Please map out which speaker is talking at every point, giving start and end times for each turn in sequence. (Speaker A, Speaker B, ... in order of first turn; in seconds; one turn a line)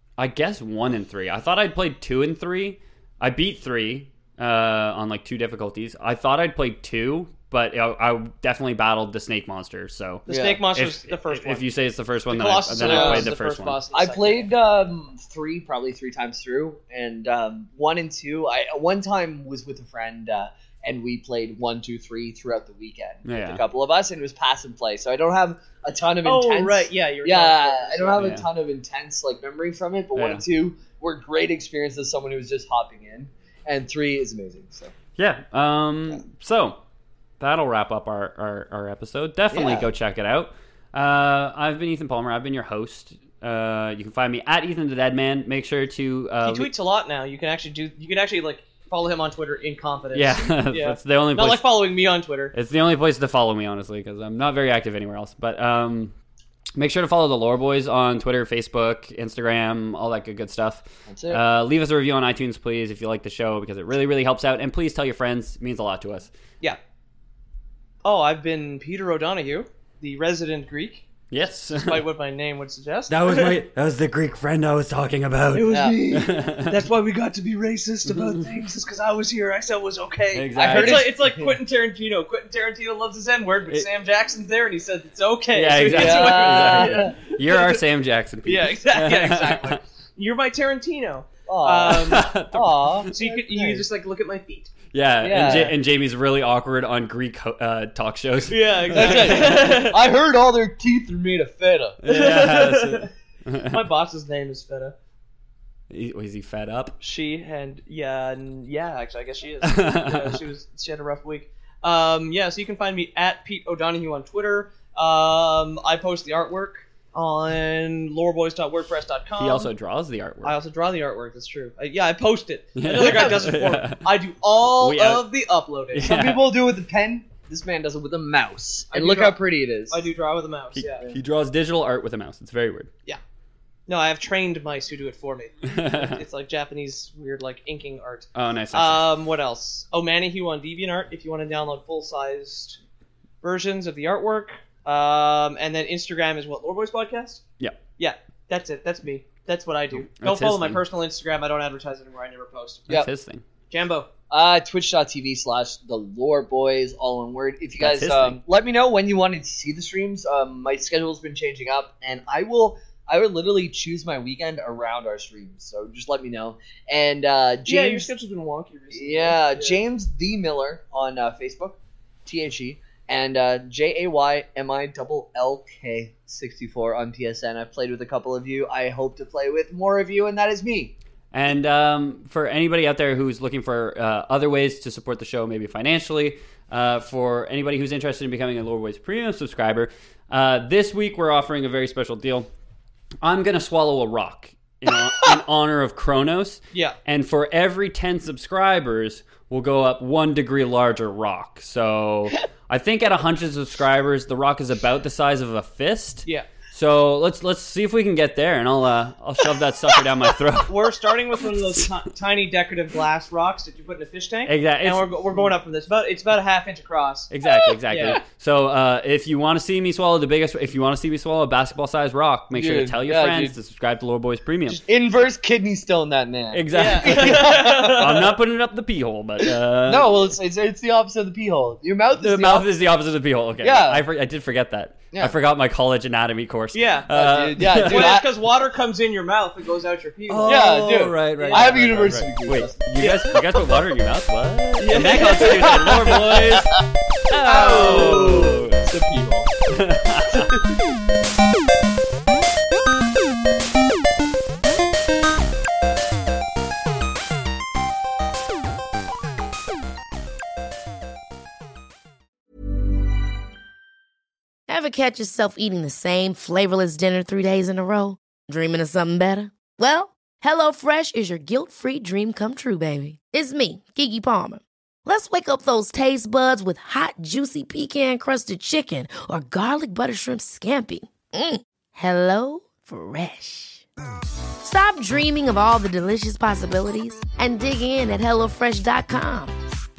Speaker A: 0.2-13.8
Speaker B: 10.3-11.7
Speaker C: 10.3-10.6
Speaker B: 12.3-14.5
Speaker C: 12.8-13.3
Speaker C: 13.9-34.9
Speaker A: 23.2-23.6
Speaker B: 26.2-28.4
Speaker A: 28.2-28.5
Speaker A: 30.1-30.4
Speaker A: 35.2-36.8
Speaker A: 37.4-46.7
Speaker C: 39.5-39.9
Speaker B: 46.4-52.5
Speaker A: 50.1-51.7
Speaker A: 52.5-56.1
Speaker A: 56.8-66.3
Speaker C: 61.1-61.4
Speaker B: 68.0-71.1
Speaker A: 71.3-72.0
Speaker B: 71.8-73.6
Speaker A: 73.1-76.8
Speaker B: 75.5-87.8
Speaker C: 75.7-76.3
Speaker A: 78.1-78.4
Speaker A: 80.3-81.1
Speaker C: 80.6-81.6
Speaker A: 85.5-89.8
Speaker C: 85.9-87.2
Speaker B: 88.5-92.3
Speaker C: 91.5-93.8
Speaker A: 91.9-93.0
Speaker B: 93.1-94.8
Speaker A: 94.9-99.7
Speaker C: 95.2-95.8
Speaker B: 95.4-95.7
Speaker B: 98.5-100.0
Speaker C: 98.9-102.0
Speaker A: 102.0-103.8
Speaker B: 102.1-103.1
Speaker B: 103.7-105.0
Speaker A: 105.9-107.0
Speaker B: 107.0-119.7
Speaker A: 109.6-110.4
Speaker A: 119.4-120.6
Speaker B: 120.4-126.1
Speaker A: 122.8-124.1
Speaker C: 122.9-123.5
Speaker A: 124.8-125.3
Speaker A: 125.9-126.5
Speaker C: 126.0-130.0
Speaker B: 128.9-131.1
Speaker A: 130.7-132.9
Speaker B: 133.9-142.8
Speaker A: 135.6-136.2
Speaker A: 138.3-139.1
Speaker B: 143.4-147.4
Speaker B: 148.0-152.9
Speaker A: 150.2-150.8
Speaker A: 152.9-153.4
Speaker B: 153.7-154.1
Speaker C: 154.3-168.1
Speaker A: 157.8-158.4
Speaker B: 167.7-169.8
Speaker C: 168.9-180.9
Speaker A: 181.3-192.5
Speaker A: 193.2-211.9
Speaker B: 210.7-217.3
Speaker A: 214.5-215.1
Speaker A: 217.3-224.8
Speaker B: 217.9-218.2
Speaker C: 217.9-218.2
Speaker C: 222.5-223.6
Speaker C: 224.9-228.2
Speaker A: 226.5-230.3
Speaker B: 226.7-228.2
Speaker C: 229.9-232.7
Speaker A: 232.2-238.2
Speaker C: 233.6-234.1
Speaker B: 236.7-237.1
Speaker C: 237.1-238.3
Speaker B: 237.6-242.1
Speaker A: 240.3-246.8
Speaker C: 240.4-243.2
Speaker B: 243.0-243.3
Speaker B: 244.8-246.1
Speaker C: 245.3-246.6
Speaker A: 247.3-248.8
Speaker C: 247.4-249.5
Speaker B: 247.5-248.5
Speaker A: 249.7-250.6
Speaker D: 264.7-283.9
Speaker D: 284.6-289.6